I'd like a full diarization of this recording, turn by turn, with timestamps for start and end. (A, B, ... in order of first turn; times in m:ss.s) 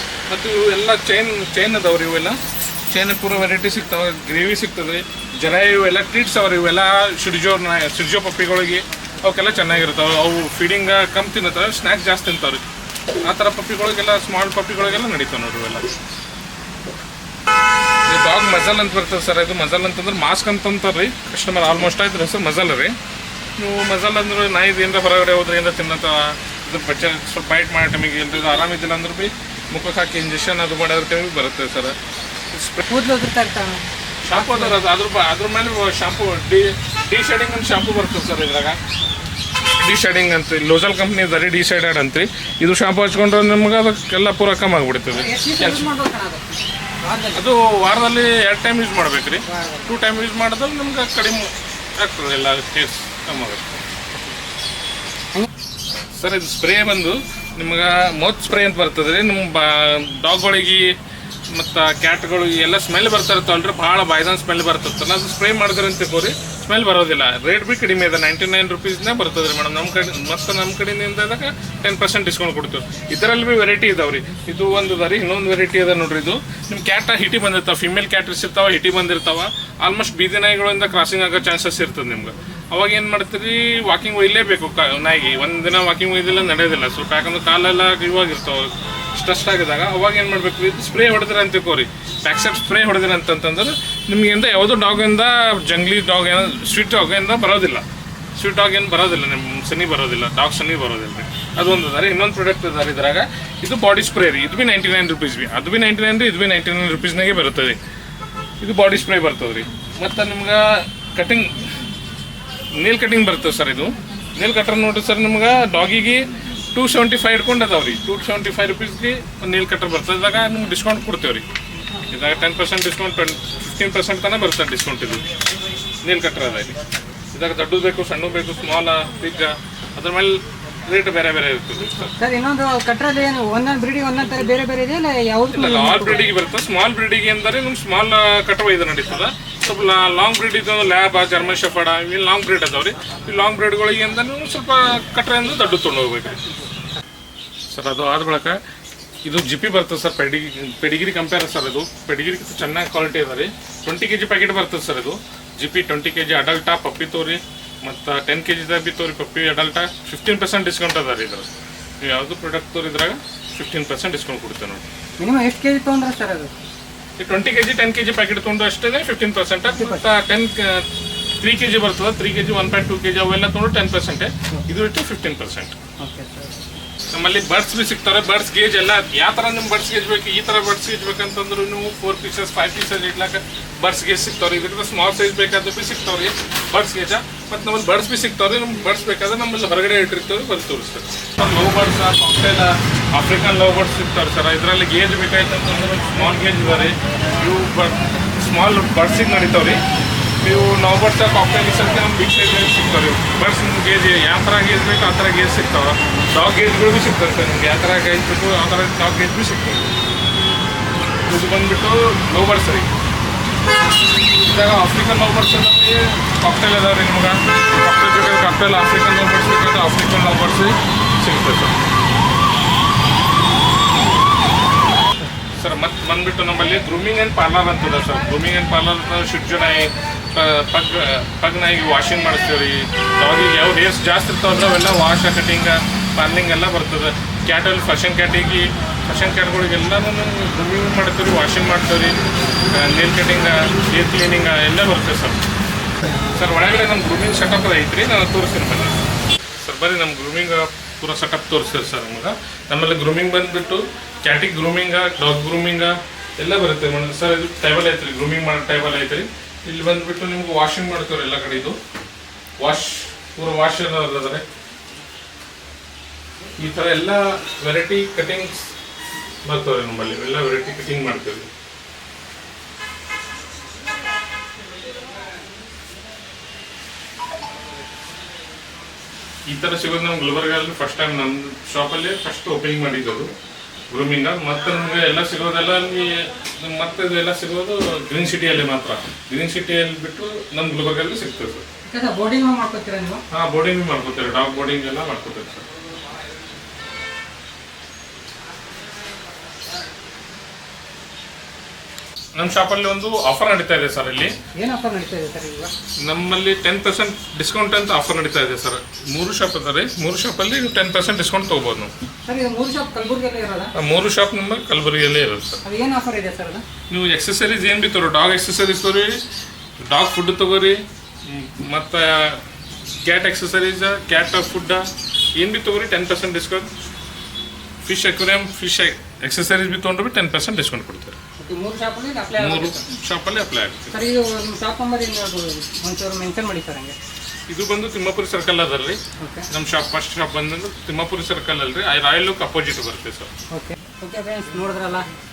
0:00.3-0:12.7 A
0:13.2-0:15.9 A
0:18.1-0:23.0 A
0:23.6-0:32.0 A
0:32.5-0:32.9 A
0:32.9-0:34.8 B
0:34.2-0:38.8 A
0:39.7-0:45.9 A
0:45.1-0:47.4 B
0:47.4-0:53.7 A
0:49.5-0:49.9 B
0:56.1-1:01.0 A
1:01.5-1:37.8 A
1:38.4-1:47.8 A
1:48.6-1:51.7 A
1:52.7-2:01.5 A
2:02.1-2:05.2 A
2:06.0-2:06.8 A
2:07.3-2:12.1 A
2:12.1-2:16.3 B
2:15.5-2:26.4 A
2:27.7-2:28.6 A
2:29.2-2:41.5 A
2:42.0-2:44.9 A
2:45.2-2:46.5 B
2:47.2-2:50.9 A
2:49.8-2:50.0 B
2:51.4-2:55.8 A
2:56.0-2:56.6 B
2:57.1-3:19.8 A
3:20.4-3:29.9 A
3:31.2-3:32.9 A
3:34.4-3:41.8 A
3:45.6-4:05.4 A
4:06.3-4:09.0 A
4:09.6-4:21.8 A
4:22.6-4:24.4 A
4:26.6-4:28.7 A
4:29.4-4:31.5 A
4:39.5-4:43.3 A
4:43.9-4:51.7 A
4:51.9-4:53.2 B
4:53.3-4:55.7 A
5:02.4-5:04.3 A
5:04.6-5:05.7 B
5:06.0-5:11.9 A
5:12.3-5:13.7 B
5:13.8-5:15.6 A
5:15.6-5:16.6 B
5:16.9-5:19.2 A
5:19.8-5:22.4 A
5:23.0-5:26.7 A
5:27.8-5:31.2 A
5:31.4-5:32.8 B
5:32.4-5:34.0 A
5:33.9-5:37.0 B
5:37.5-5:43.3 A
5:39.2-5:39.5 B
5:43.5-5:45.1 B